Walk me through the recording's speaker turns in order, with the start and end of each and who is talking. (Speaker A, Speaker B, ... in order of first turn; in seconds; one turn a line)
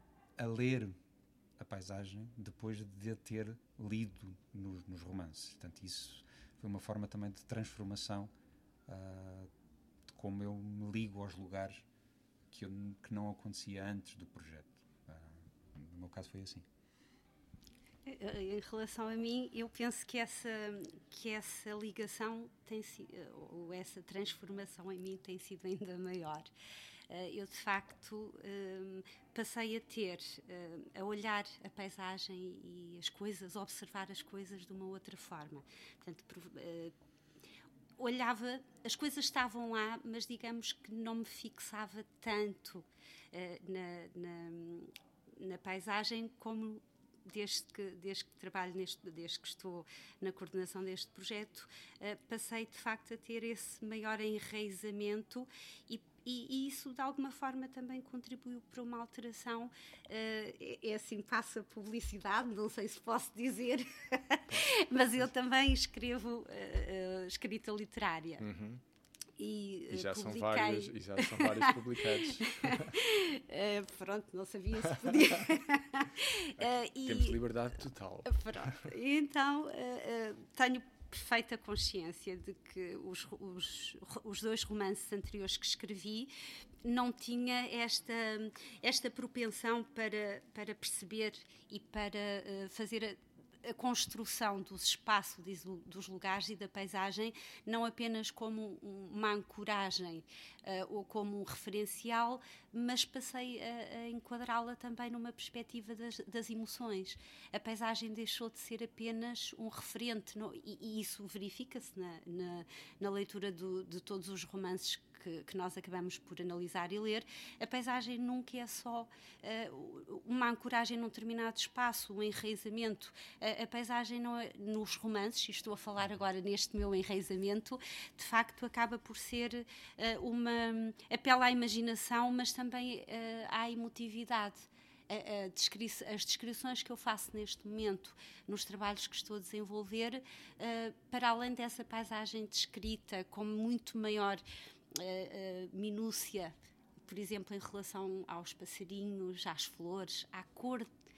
Speaker A: 0.4-1.0
Speaker A: 1.6-8.3
Speaker A: 8.9-9.5
Speaker A: 10.1-11.8
Speaker A: 12.5-16.6
Speaker B: 18.1-26.5
Speaker B: 27.1-36.9
Speaker B: 38.0-68.4
Speaker C: 68.4-68.8
Speaker B: 69.4-71.7
Speaker C: 69.9-72.9
Speaker B: 72.2-77.3
Speaker C: 76.6-78.8
Speaker B: 78.2-146.5
Speaker B: 147.1-150.9